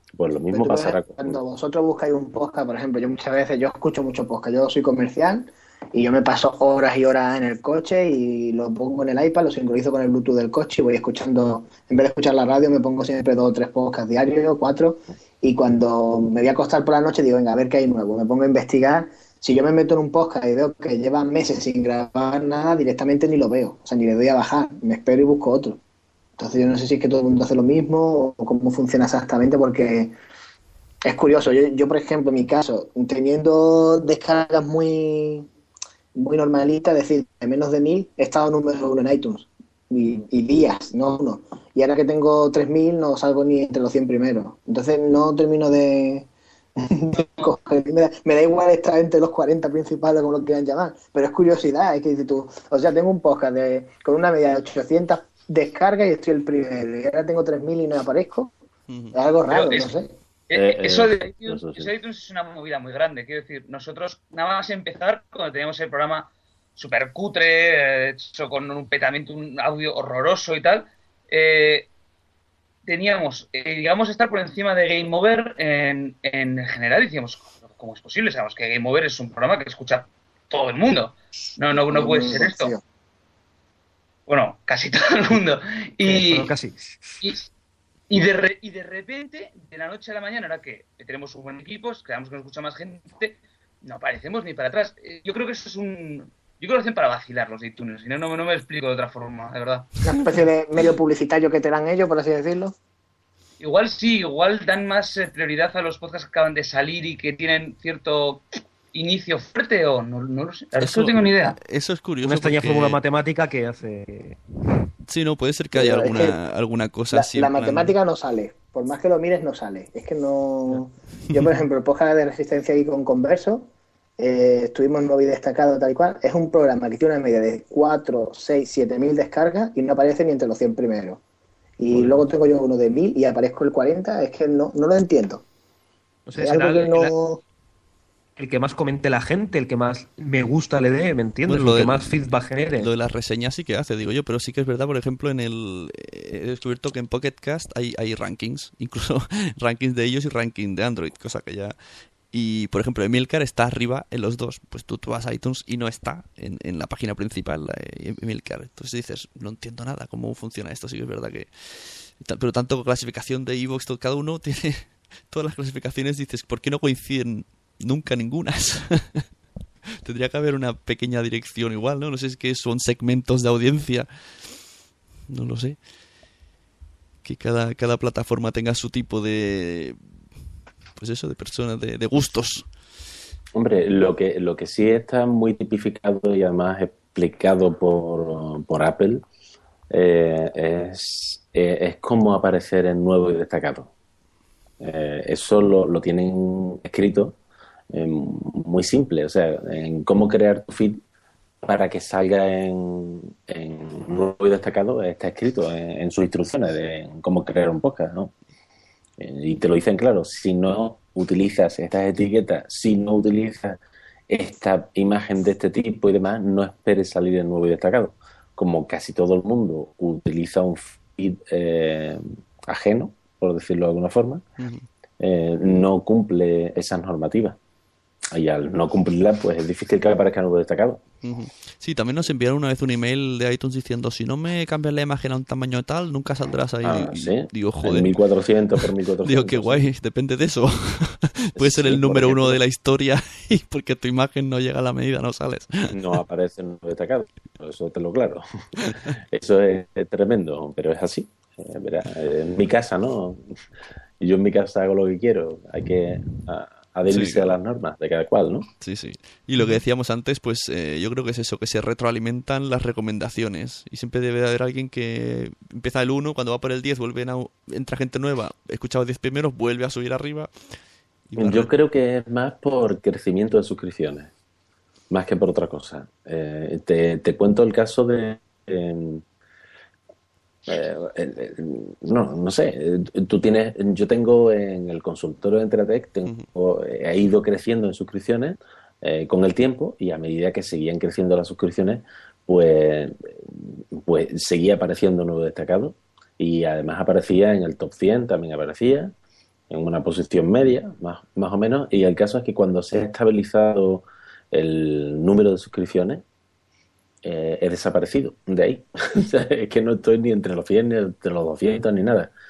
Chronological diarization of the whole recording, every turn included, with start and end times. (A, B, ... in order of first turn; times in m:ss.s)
0:00.2-0:01.4 A
0:00.5-0:25.8 B
0:26.4-0:30.1 B
0:31.0-0:35.5 B
0:36.1-0:58.5 B
0:58.9-0:59.1 C
0:59.1-1:00.1 B
0:59.5-0:59.9 D
1:00.5-1:11.9 D
1:00.5-1:01.9 A
1:12.8-1:22.7 D
1:21.9-1:22.8 B
1:24.3-1:26.5 D
1:26.0-1:26.9 E
1:28.1-1:39.9 D
1:40.0-1:42.7 B
1:43.6-1:51.6 D
1:50.8-1:53.0 C
1:52.2-1:54.4 E
1:55.0-1:57.9 C
1:55.7-1:56.4 B
1:57.1-2:11.2 B
2:11.8-2:15.4 B
2:16.3-2:17.1 E
2:16.3-2:17.4 B
2:18.4-2:22.9 E
2:21.5-2:22.2 C
2:22.8-2:31.7 C
2:32.3-2:49.3 C
2:50.0-2:54.5 C
2:55.3-2:55.8 C
2:57.2-3:00.0 C
3:01.0-3:02.7 C
3:03.5-3:09.2 A
3:09.9-3:13.9 A
3:14.8-3:17.4 A
3:17.9-3:21.0 A
3:21.6-3:28.3 A
3:29.2-3:33.8 A
3:34.3-3:44.4 A
3:44.6-3:44.8 C
3:45.2-3:47.6 A
3:48.3-3:51.0 A
3:51.2-3:58.2 C
3:56.8-3:59.9 A
3:58.8-4:06.2 C
4:01.6-4:02.6 A
4:05.9-4:13.4 A
4:14.2-4:18.7 A
4:17.0-4:17.6 C
4:18.8-4:30.5 C
4:31.3-4:31.7 C
4:31.4-4:34.3 A
4:35.1-4:39.2 A
4:40.7-4:59.1 A
4:59.7-5:06.2 A
5:07.2-5:12.3 A